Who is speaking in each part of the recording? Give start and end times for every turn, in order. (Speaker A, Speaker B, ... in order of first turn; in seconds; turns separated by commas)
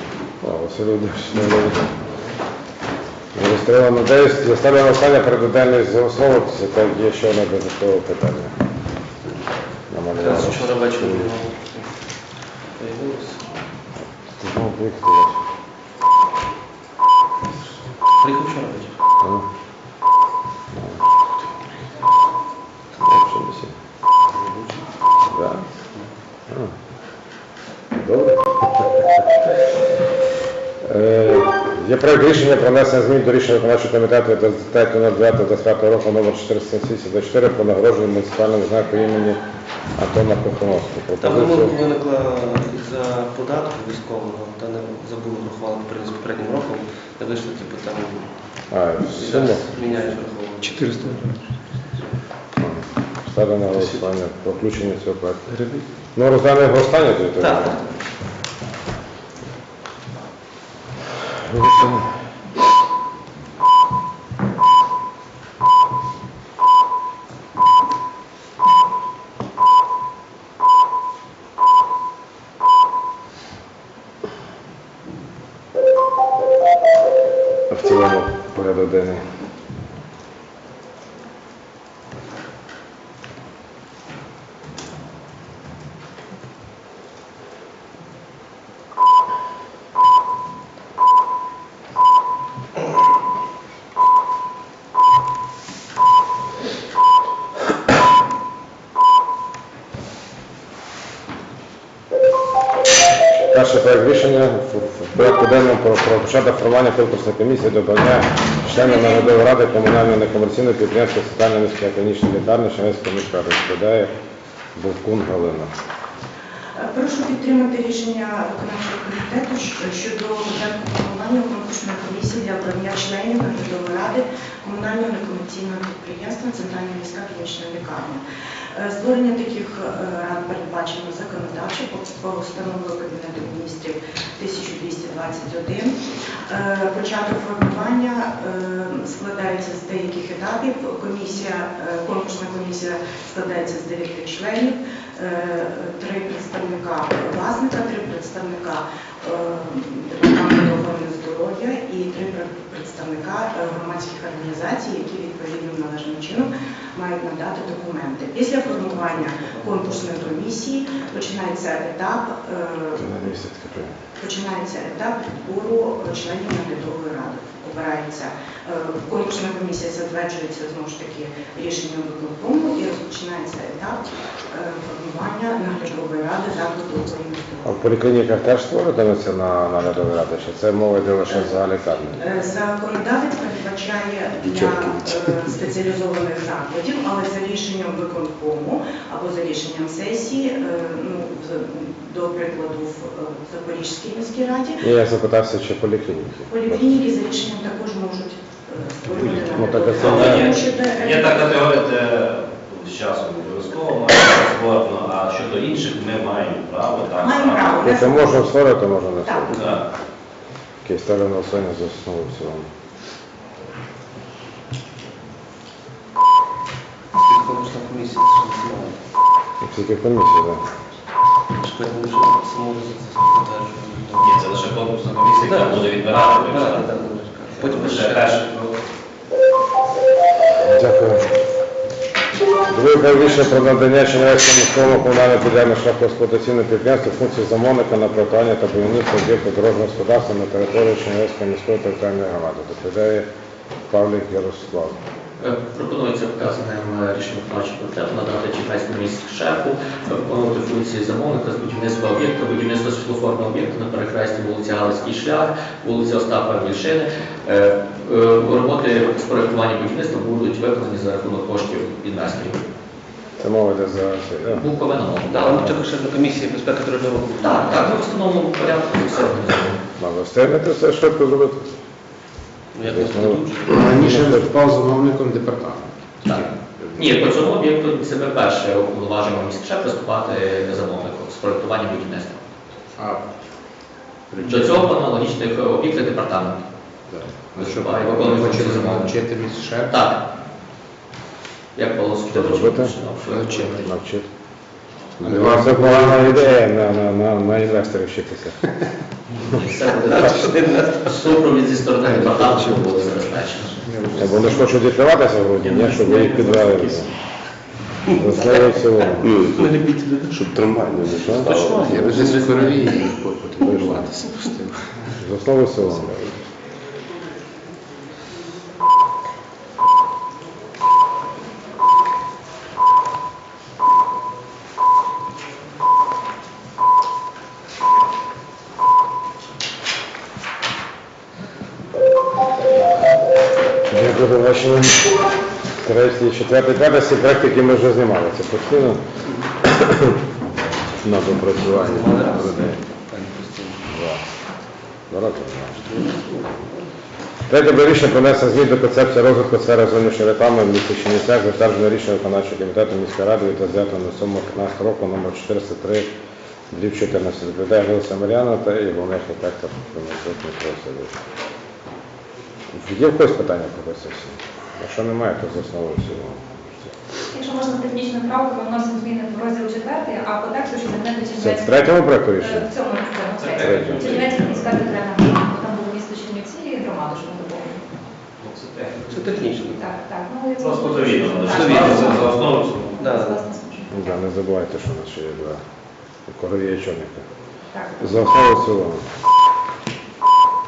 Speaker A: 0.4-1.9, Speaker A: 3.3-8.6, Speaker A: 9.9-11.3, Speaker B: 10.1-11.9, Speaker B: 12.8-13.4, Speaker A: 14.4-15.4, Speaker B: 18.2-19.0, Speaker A: 19.2-19.5, Speaker A: 20.7-21.2, Speaker A: 23.0-23.8, Speaker B: 24.3-24.8, Speaker A: 25.3-25.7, Speaker A: 28.0-29.1, Speaker A: 30.8-39.4, Speaker A: 40.0-41.8, Speaker B: 41.2-48.3, Speaker A: 48.7-49.8, Speaker B: 49.1-51.4, Speaker C: 50.6-51.3, Speaker A: 52.6-55.5, Speaker A: 56.1-57.8, Speaker B: 57.4-57.8, Speaker A: 61.4-62.1, Speaker A: 77.7-79.2, Speaker A: 103.5-114.1, Speaker D: 108.7-109.3, Speaker A: 114.8-115.7, Speaker D: 116.8-128.2, Speaker D: 128.7-136.0, Speaker D: 136.5-163.1, Speaker B: 158.8-160.5, Speaker A: 163.0-163.9, Speaker D: 164.2-177.7, Speaker A: 177.6-182.2, Speaker D: 182.2-194.8, Speaker A: 194.8-196.9, Speaker D: 196.5-201.5, Speaker E: 199.2-207.8, Speaker A: 199.4-200.5, Speaker D: 207.2-208.5, Speaker A: 207.8-209.8, Speaker D: 209.2-209.6, Speaker A: 210.8-212.7, Speaker B: 217.1-219.0, Speaker A: 219.6-220.7, Speaker B: 221.5-224.8, Speaker E: 224.2-226.9, Speaker B: 225.4-228.6, Speaker E: 227.6-228.7, Speaker A: 230.6-231.3, Speaker A: 232.7-243.3, Speaker A: 243.9-245.0, Speaker F: 245.4-262.6, Speaker A: 263.4-264.7, Speaker F: 264.6-265.8, Speaker B: 265.3-268.0, Speaker F: 267.4-269.8, Speaker A: 270.0-271.7, Speaker B: 272.7-274.2, Speaker A: 272.8-274.5, Speaker C: 273.7-277.2, Speaker F: 276.2-282.4, Speaker C: 283.0-283.3, Speaker C: 284.3-284.9, Speaker F: 284.4-286.6, Speaker C: 287.1-290.0, Speaker F: 287.6-289.1, Speaker F: 289.9-290.2, Speaker F: 291.8-293.9, Speaker A: 292.3-293.0, Speaker C: 293.2-293.9, Speaker A: 293.8-294.3, Speaker A: 295.2-298.6, Speaker C: 295.2-296.6, Speaker F: 299.4-303.8, Speaker B: 299.9-301.3, Speaker B: 302.1-302.7, Speaker C: 302.8-303.1, Speaker C: 303.8-304.7, Speaker A: 304.2-307.1, Speaker F: 306.0-306.7, Speaker B: 308.1-313.2, Speaker A: 308.1-309.5, Speaker A: 311.0-311.6, Speaker C: 311.4-315.1, Speaker A: 315.2-316.4, Speaker A: 333.9-335.2, Speaker A: 335.8-339.0, Speaker A: 339.6-340.2, Speaker A: 341.0-342.8, Speaker B: 341.6-343.9, Speaker A: 343.9-344.2, Speaker A: 345.1-345.8, Speaker B: 345.7-346.9, Speaker A: 347.5-356.1, Speaker A: 356.7-361.1, Speaker A: 362.7-366.9, Speaker G: 367.3-377.8, Speaker A: 371.4-372.7, Speaker E: 373.4-374.8, Speaker A: 373.6-374.0, Speaker E: 378.4-379.2, Speaker B: 379.1-379.9, Speaker G: 379.7-384.0, Speaker E: 380.6-383.1, Speaker B: 381.4-382.3, Speaker B: 383.0-383.5, Speaker A: 383.9-385.6, Speaker A: 386.3-387.2, Speaker G: 387.7-388.2, Speaker A: 388.0-389.1